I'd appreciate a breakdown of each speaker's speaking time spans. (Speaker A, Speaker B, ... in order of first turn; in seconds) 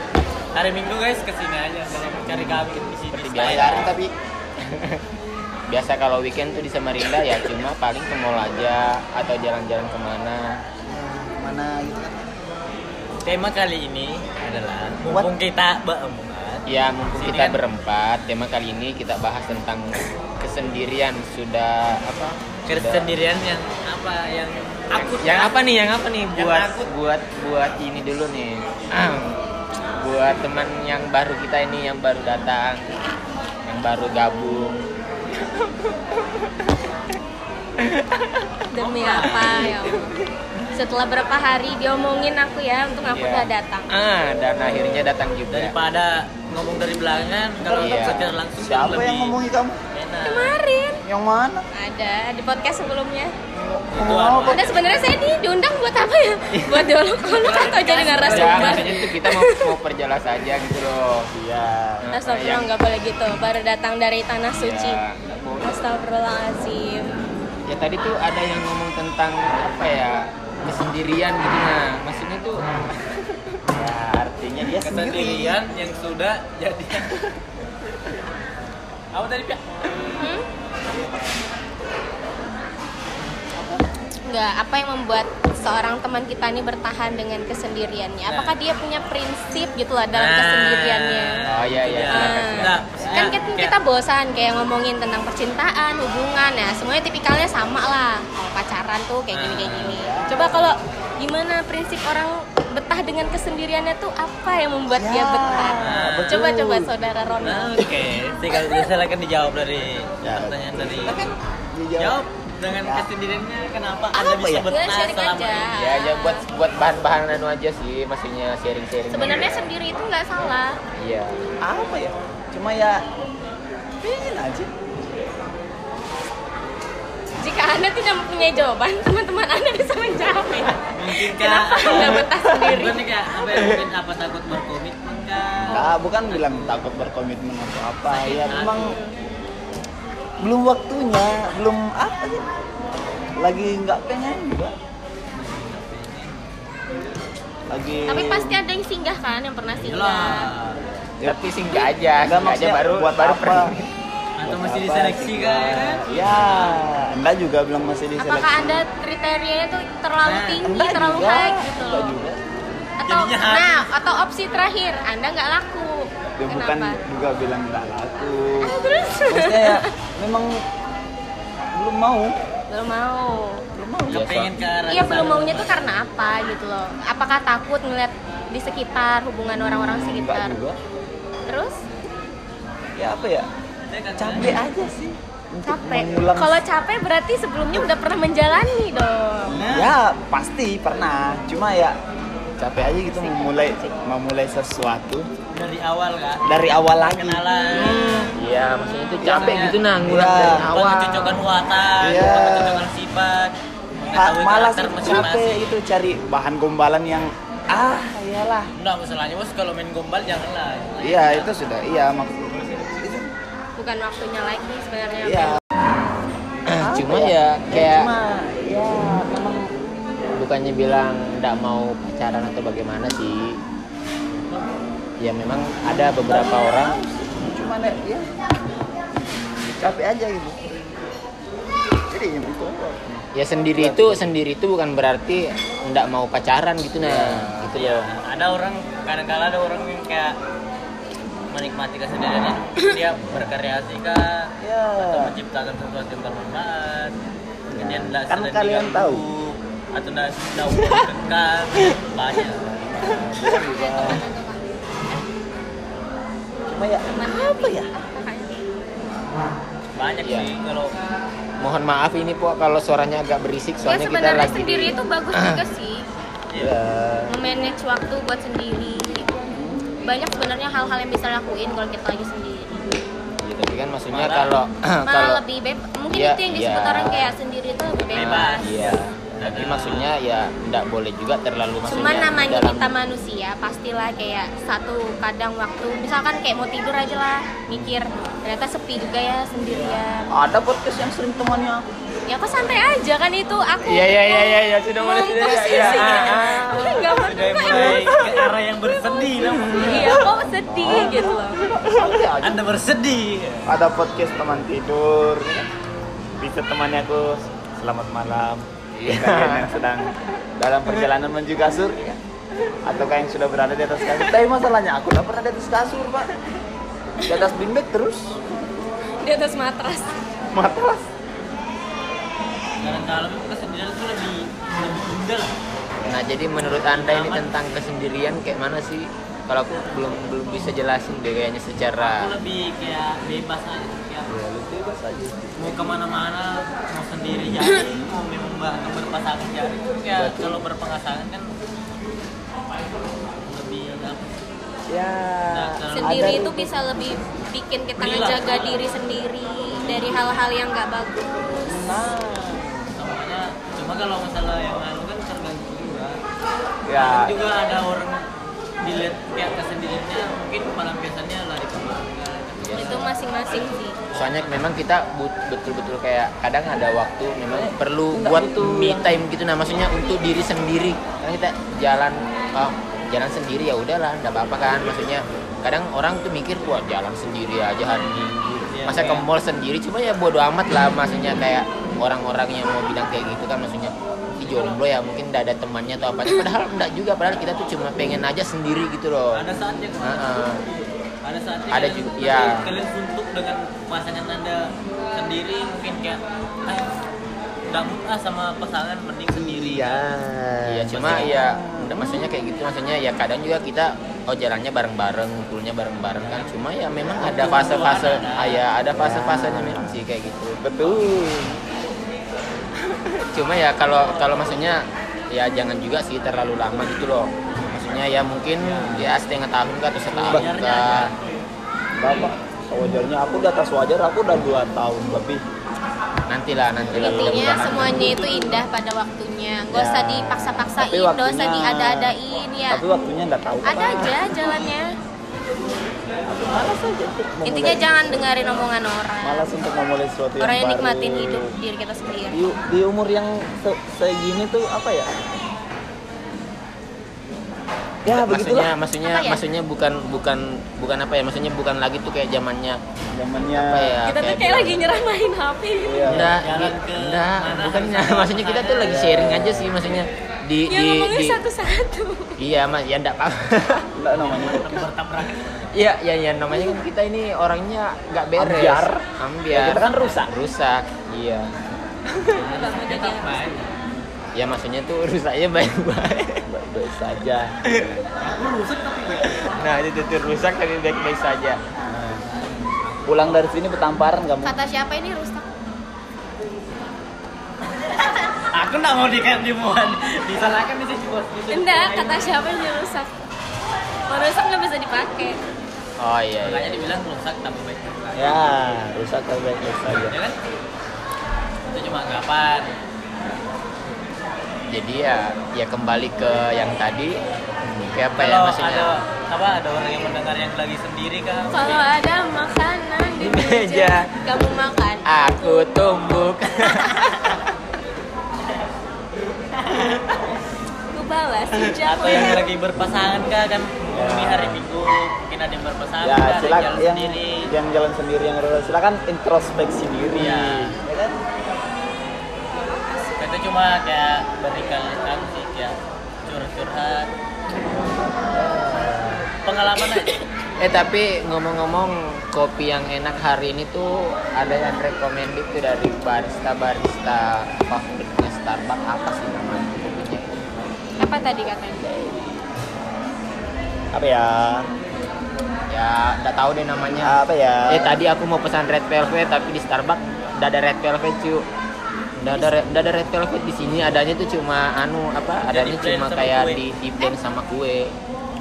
Speaker A: 0.5-3.9, 13.2-16.6, 17.2-17.6, 22.7-25.6, 26.3-26.9, 38.8-39.8, 45.5-49.4, 49.9-50.6, 53.9-55.1, 57.2-59.0, 74.8-77.2, 79.1-79.8, 88.2-88.6, 90.1-93.7, 99.3-100.8, 105.8-106.4, 107.4-111.3, 112.0-115.7, 130.9-136.8, 138.1-138.9, 145.3-146.5, 149.8-150.8, 154.4-156.8, 160.2-160.6, 162.8-163.9, 174.1-176.0, 183.9-184.6, 189.5-190.0, 195.5-198.2, 199.2-199.8, 200.5-205.8, 208.8-211.7, 237.7-240.3, 241.5-247.2, 247.7-252.6, 259.9-260.9, 274.1-274.5, 278.1-280.1, 289.6-290.0, 295.7-296.2, 297.1-300.2, 302.4-303.6, 322.8-325.5, 326.8-327.5, 332.0-334.4, 335.6-341.5, 343.4-344.4, 345.5-346.4, 348.0-348.8, 352.9-356.2, 356.9-358.2, 358.8-363.1, 364.1-364.7, 378.7-379.2, 384.4-384.8, 389.3-390.4, 391.2-394.6, 395.1-397.0, 397.7-400.0, 400.9-401.2, 406.2-406.5, 407.2-408.6, 414.0-414.6, 418.6-419.0, 420.3-421.1, 456.1-459.0, 464.1-465.8, 472.3-473.8, 478.2-479.6, 482.3-483.6, 487.8-492.4, 496.4-498.4, 500.1-500.4, 501.6-502.8, 508.2-511.9, 519.6-520.1, 521.6-527.5, 530.1-530.8, 533.2-537.1, 539.4-540.2, 565.4-566.6
Speaker B: 2.2-3.9, 4.6-5.0, 5.7-10.6, 16.7-23.2, 24.9-29.4, 30.0-32.8, 33.6-34.8, 35.4-36.6, 37.8-38.5, 39.6-40.1, 43.1-45.7, 47.8-48.2, 58.1-61.3, 62.0-62.7, 64.5-65.5, 67.7-73.6, 91.5-92.8, 115.7-119.7, 121.0-121.5, 132.0-132.4, 133.5-133.8, 151.2-153.9, 174.1-174.5, 192.6-193.0, 197.8-201.4, 216.7-218.1, 220.3-223.6, 225.2-227.0, 233.3-238.1, 260.2-260.5, 261.6-265.6, 273.4-275.4, 276.1-277.3, 278.0-282.9, 293.8-298.4, 299.4-302.5, 308.9-309.8, 326.1-332.3, 362.6-363.1, 364.1-389.4, 390.0-390.6, 391.7-392.7, 400.7-410.6, 412.8-421.1, 426.3-428.1, 448.1-452.8, 453.4-454.9, 456.1-461.4, 462.4-463.9, 465.7-472.4, 474.3-476.5, 477.7-478.0, 479.1-481.6, 496.0-496.9, 504.7-507.1, 507.6-508.9, 513.2-514.1, 515.0-517.4, 540.6-550.4, 555.7-561.4, 562.2-567.9
Speaker C: 3.4-4.1, 10.9-12.3, 15.1-15.3, 47.6-49.8, 51.0-51.6, 53.5-54.8, 61.3-62.1, 73.7-75.6, 83.5-83.8, 99.9-100.7, 104.9-106.9, 110.2-112.2, 112.8-113.1, 114.2-114.7, 121.6-123.0, 124.0-124.7, 135.6-138.9, 140.4-142.5, 143.4-144.7, 147.7-148.6, 152.2-153.7, 154.4-158.8, 160.6-162.6, 166.4-170.6, 171.7-172.3, 173.7-174.2, 179.6-180.8, 182.9-183.5, 184.2-186.6, 189.5-191.9, 192.7-195.3, 196.4-198.3, 199.2-200.6, 202.0-202.9, 204.1-208.7, 211.0-213.3, 215.2-215.6, 216.8-219.7, 225.8-228.3, 229.7-230.6, 232.1-234.3, 237.0-237.7, 244.6-245.3, 247.7-249.2, 252.8-254.2, 256.7-257.9, 266.6-267.4, 269.5-269.9, 279.3-279.6, 290.3-291.8, 300.6-302.5, 303.6-305.6, 306.4-312.2, 312.8-316.3, 317.3-318.4, 320.5-321.1, 334.3-336.0, 337.7-338.1, 340.1-340.6, 344.9-346.7, 351.6-352.9, 356.9-357.3, 368.1-369.1, 399.3-402.1, 408.9-410.0, 410.6-411.6, 420.2-420.5, 422.0-425.4, 426.9-427.7, 429.7-432.1, 432.7-434.3, 436.3-438.0, 439.2-441.5, 442.3-445.1, 448.1-448.7, 453.1-454.0, 455.8-456.3, 458.8-459.8, 463.9-464.8, 468.4-470.3, 476.5-478.1, 481.9-482.2, 483.1-484.5, 498.1-500.1, 523.9-524.6, 526.0-531.2, 538.3-539.3, 551.8-552.2, 553.9-554.6, 557.0-558.0
Speaker D: 38.7-40.1, 40.7-43.9, 50.2-51.0, 51.7-53.3, 54.5-59.7, 62.1-65.0, 65.6-67.1, 80.2-80.5, 84.3-91.3, 92.1-107.9, 108.5-108.8, 114.2-116.4, 119.1-120.8, 127.4-133.0, 148.1-150.5, 158.2-162.2, 163.0-167.0, 168.6-169.9, 172.7-173.6, 174.9-180.6, 181.5-181.8, 185.7-189.6, 193.1-193.8, 213.8-215.6, 253.4-255.2, 257.1-258.5, 263.8-266.1, 267.3-269.3, 270.0-272.9, 275.1-278.6, 281.8-290.3, 292.3-298.1, 298.8-301.6, 317.2-317.5, 319.2-320.1, 345.9-351.3, 362.7-364.0, 426.9-432.8, 433.6-434.9, 437.4-439.5, 440.4-442.4, 449.0-449.4, 454.0-456.1, 460.7-462.4, 472.4-473.5, 484.4-485.5, 491.5-493.1, 494.1-495.4, 511.5-515.6, 520.9-522.5, 532.5-533.2, 551.0-551.9, 562.3-562.6